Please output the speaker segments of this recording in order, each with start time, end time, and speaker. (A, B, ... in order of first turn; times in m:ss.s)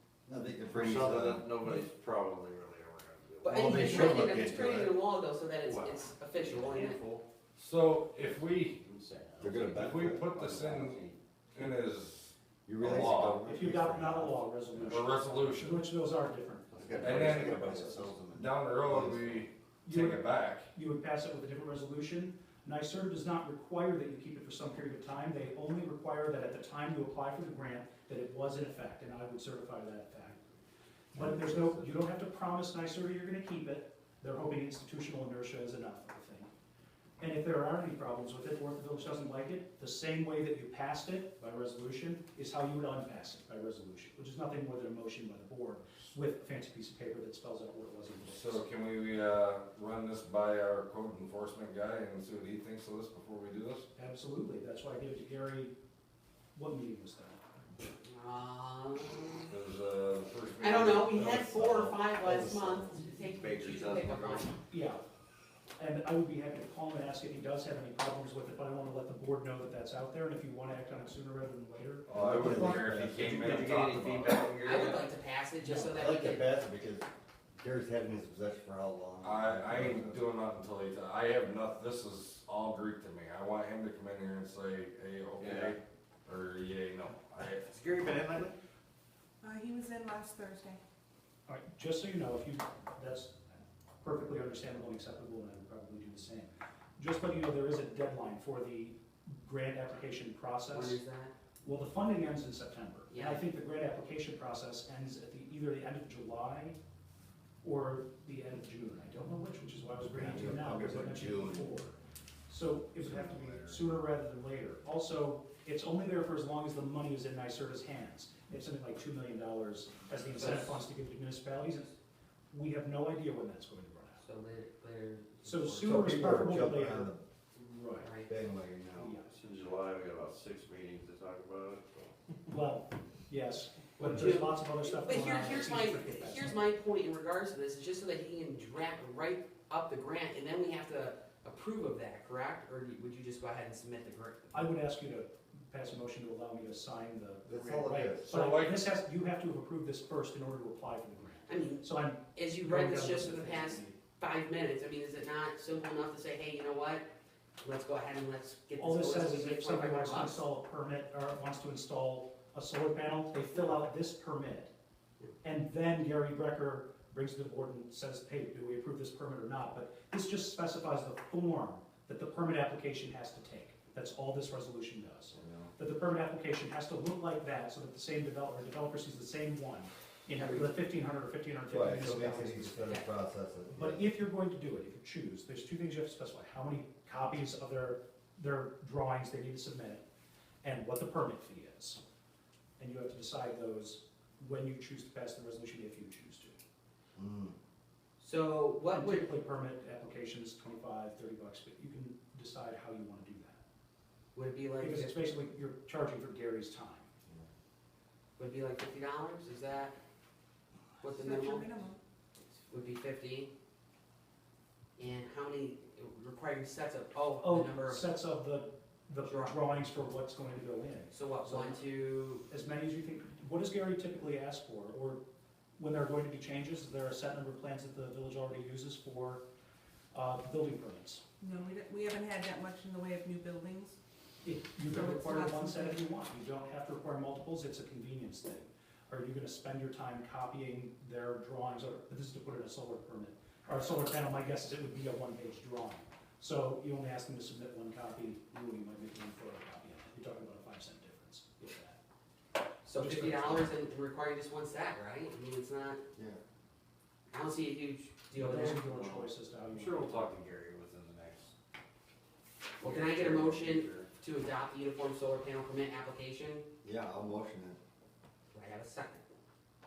0:00.3-0:01.8 A
0:00.4-0:04.3 B
0:03.4-0:07.0 C
0:03.4-0:04.9 A
0:05.6-0:07.2 B
0:07.6-0:08.8 D
0:08.2-0:11.2 B
0:09.4-0:10.3 A
0:09.6-0:11.0 D
0:11.5-0:13.4 D
0:12.6-0:14.9 A
0:13.4-0:18.1 E
0:14.9-0:15.8 D
0:16.7-0:19.4 A
0:17.0-0:20.7 D
0:19.8-0:30.4 E
0:31.1-0:36.5 E
0:37.2-0:48.6 E
0:48.3-0:53.9 D
0:54.0-0:55.7 E
0:56.5-0:57.4 E
0:58.0-0:59.5 C
0:59.5-1:01.5 D
1:00.6-1:04.6 C
1:01.2-1:03.0 A
1:03.2-1:04.5 B
1:04.7-1:05.0 E
1:05.8-1:12.8 E
1:12.1-1:14.5 D
1:12.1-1:14.0 A
1:12.5-1:15.0 B
1:14.6-1:16.4 C
1:15.6-1:15.9 E
1:15.9-1:20.2 A
1:19.2-1:27.8 D
1:25.4-1:25.8 B
1:27.7-1:28.5 B
1:29.4-1:30.8 F
1:31.5-1:33.5 E
1:34.0-1:41.0 E
1:40.7-1:41.3 C
1:41.6-1:46.8 E
1:43.1-1:43.4 C
1:47.6-2:02.0 E
1:50.1-1:51.7 A
1:53.1-1:53.8 A
2:00.4-2:00.8 C
2:02.5-2:04.2 E
2:04.2-2:06.1 C
2:05.4-2:08.1 E
2:05.8-2:07.2 A
2:08.0-2:08.3 C
2:08.3-2:09.2 A
2:08.9-2:09.3 E
2:09.3-2:12.1 B
2:12.5-2:16.6 E
2:14.0-2:24.7 C
2:24.5-2:34.0 E
2:27.5-2:28.3 A
2:28.2-2:28.9 D
2:31.5-2:37.0 C
2:37.6-2:40.4 C
2:38.8-2:44.7 E
2:45.4-3:02.9 E
3:01.7-3:04.1 A
3:03.8-3:10.0 E
3:10.6-3:12.0 E
3:12.8-3:16.6 E
3:17.2-3:17.6 A
3:18.2-3:19.3 C
3:18.9-3:23.6 E
3:24.3-3:25.1 C
3:24.8-3:27.1 E
3:28.4-3:29.9 C
3:31.0-3:31.7 C
3:31.0-3:32.0 F
3:32.7-3:33.5 C
3:35.0-3:38.0 C
3:37.4-3:41.8 E
3:39.2-3:39.7 C
3:41.1-3:42.4 C
3:42.5-3:45.2 E
3:45.8-3:49.4 E
3:50.1-3:51.2 E
3:51.4-3:54.0 F
3:54.4-4:12.0 E
3:54.8-3:56.0 F
4:12.8-4:16.0 C
4:13.0-4:13.7 E
4:16.1-4:16.4 A
4:17.3-4:18.9 C
4:18.3-4:20.3 E
4:18.9-4:21.5 B
4:22.8-4:26.7 C
4:22.8-4:24.1 B
4:26.8-4:27.8 A
4:28.5-4:29.2 C